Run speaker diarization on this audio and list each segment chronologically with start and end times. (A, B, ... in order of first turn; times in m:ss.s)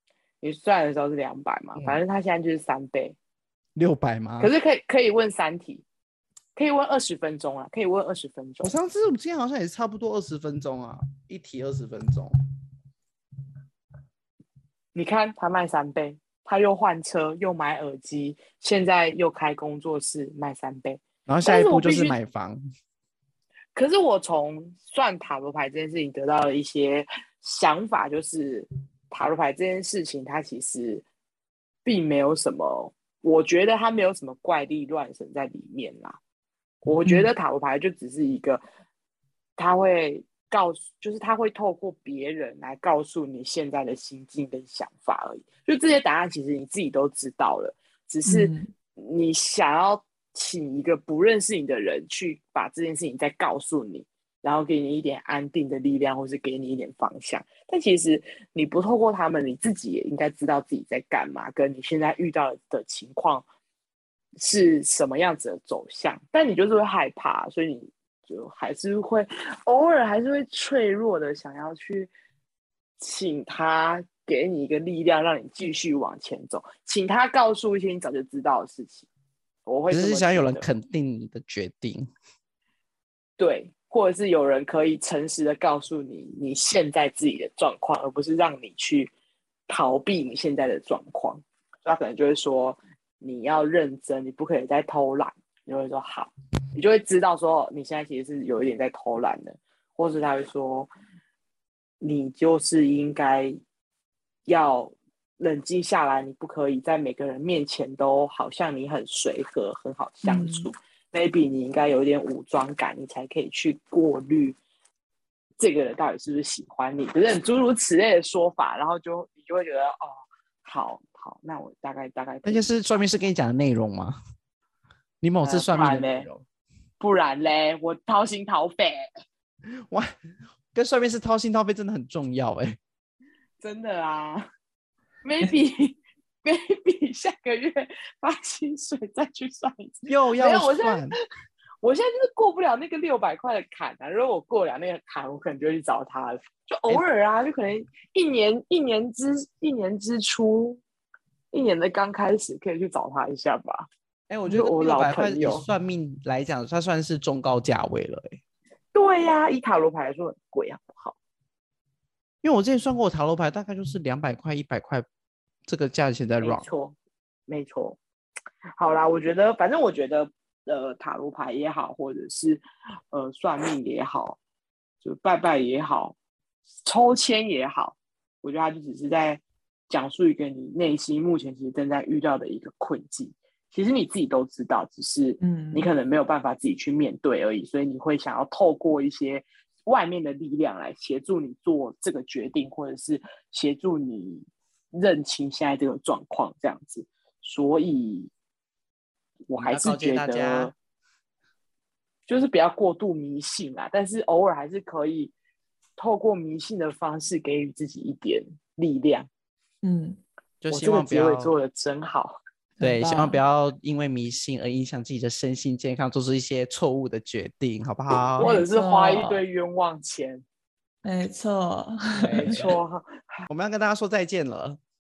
0:00.4-0:03.2 A
0:03.7-0:04.5 B
0:04.4-0:05.8 A
0:06.6-0:08.7 A
0:08.6-0:12.3 B
0:14.9-0:22.1 A
0:21.2-0:22.6 B
0:23.7-0:31.0 A
0:31.8-0:36.2 A
0:36.8-0:38.6 A
0:37.0-0:37.3 C
0:39.6-1:03.4 A
0:48.2-0:48.7 C
1:04.4-1:12.1 A
1:13.0-1:19.1 A
1:19.6-1:20.7 A
1:19.9-1:22.1 B
1:23.4-1:29.1 A
1:29.7-1:40.9 A
1:42.0-1:43.6 A
1:44.4-1:54.6 A
1:50.2-1:50.7 C
1:55.6-2:02.7 A
2:02.4-2:04.2 B
2:05.2-2:06.4 B
2:05.4-2:06.3 A
2:07.0-2:09.1 A
2:10.7-2:12.8 B
2:13.6-2:14.4 A
2:15.2-2:21.2 A
2:20.0-2:21.1 B
2:21.8-2:30.8 A
2:31.5-2:33.8 A
2:34.3-2:38.4 B
2:34.4-2:35.6 A
2:38.9-2:41.2 A
2:42.4-2:45.0 B
2:45.7-2:46.6 B
2:46.4-2:47.0 A
2:47.5-2:48.0 A
2:48.8-2:54.4 A
2:55.0-2:56.2 A
2:56.8-3:18.3 A
3:05.4-3:05.9 C
3:19.5-3:20.7 A
3:19.5-3:20.7 B
3:22.3-3:25.3 A
3:26.0-3:29.3 A
3:29.8-3:30.2 C
3:30.6-3:31.5 B
3:30.7-3:32.4 A
3:32.8-3:33.4 C
3:32.8-3:38.5 B
3:38.4-3:40.4 A
3:38.4-3:39.4 C
3:41.0-3:42.7 C
3:42.2-3:43.5 A
3:42.2-3:42.6 B
3:43.5-3:44.8 B